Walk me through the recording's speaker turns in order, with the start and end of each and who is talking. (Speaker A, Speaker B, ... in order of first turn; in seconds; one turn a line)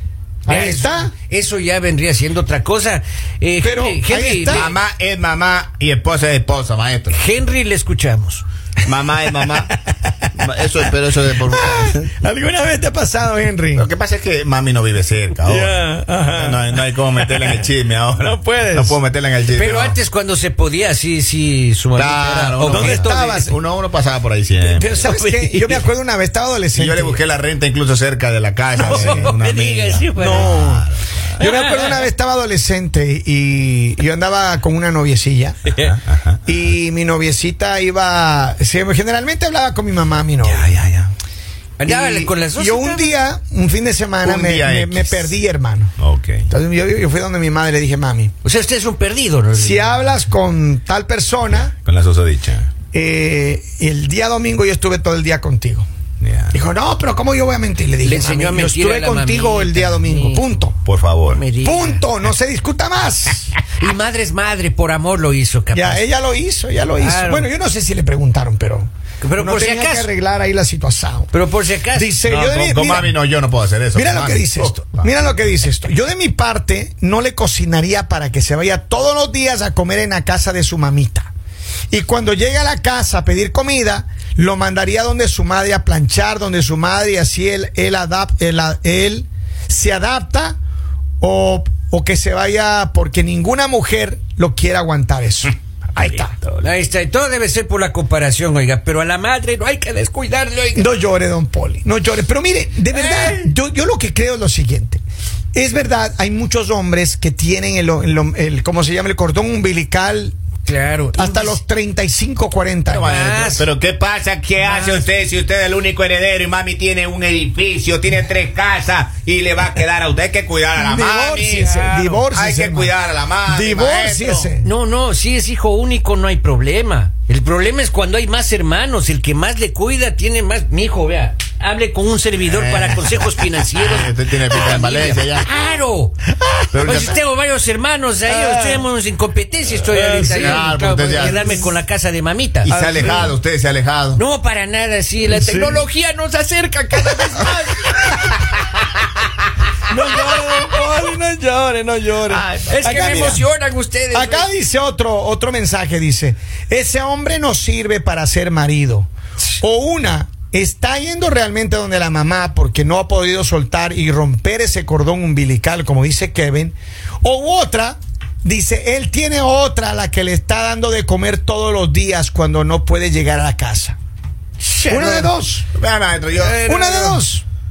Speaker A: 0.5-1.1
Speaker B: 0.5-4.7
Speaker A: 3.6-4.7
Speaker C: 4.5-7.2
Speaker B: 7.1-8.4
Speaker C: 8.8-9.7
Speaker A: 9.4-10.4
Speaker C: 10.3-12.0
Speaker A: 11.4-13.9
Speaker C: 13.7-15.8
Speaker A: 15.4-17.6
Speaker C: 16.3-20.0
Speaker A: 18.2-19.0
Speaker B: 19.5-23.3
Speaker C: 21.9-24.9
Speaker A: 22.7-23.6
Speaker A: 24.7-27.2
Speaker B: 25.0-25.9
Speaker C: 26.7-31.4
Speaker A: 28.8-29.3
Speaker B: 28.8-30.6
Speaker A: 30.1-30.9
Speaker A: 31.4-35.6
Speaker B: 31.4-32.1
Speaker C: 35.7-36.4
Speaker A: 36.5-40.6
Speaker C: 40.4-41.1
Speaker B: 41.8-43.1
Speaker A: 41.8-45.9
Speaker C: 44.2-45.3
Speaker C: 46.0-46.5
Speaker A: 46.5-48.3
Speaker B: 48.4-50.0
Speaker A: 49.5-51.7
Speaker C: 51.6-52.7
Speaker A: 52.9-55.9
Speaker C: 56.2-56.5
Speaker A: 56.5-60.8
Speaker B: 58.0-60.5
Speaker C: 60.8-61.4
Speaker B: 61.3-62.0
Speaker A: 61.6-63.5
Speaker B: 63.8-66.0
Speaker A: 65.7-71.3
Speaker B: 67.0-67.5
Speaker B: 69.2-70.1
Speaker B: 71.3-72.1
Speaker A: 71.9-73.2
Speaker C: 72.2-75.1
Speaker A: 73.9-81.3
Speaker A: 81.9-90.6
Speaker A: 91.2-96.4
Speaker B: 96.6-100.8
Speaker A: 100.7-105.0
Speaker B: 102.9-103.5
Speaker A: 105.5-110.4
Speaker B: 110.7-111.6
Speaker A: 111.1-113.2
Speaker C: 112.9-124.5
Speaker B: 113.0-113.7
Speaker B: 114.6-115.1
Speaker A: 120.8-122.9
Speaker B: 121.6-122.2
Speaker A: 123.5-124.7
Speaker B: 124.6-136.2
Speaker C: 132.5-135.5
Speaker C: 136.7-137.2
Speaker B: 136.8-143.1
Speaker A: 138.3-138.8
Speaker A: 139.9-141.6
Speaker C: 140.2-141.5
Speaker C: 142.6-144.2
Speaker A: 142.7-143.3
Speaker B: 144.2-148.5
Speaker A: 145.3-145.9
Speaker A: 149.9-153.4
Speaker C: 152.3-153.0
Speaker B: 152.7-154.5
Speaker A: 154.1-174.0
Speaker B: 174.6-175.3
Speaker A: 174.9-175.7
Speaker C: 175.7-176.6
Speaker B: 176.4-177.2
Speaker A: 176.5-177.4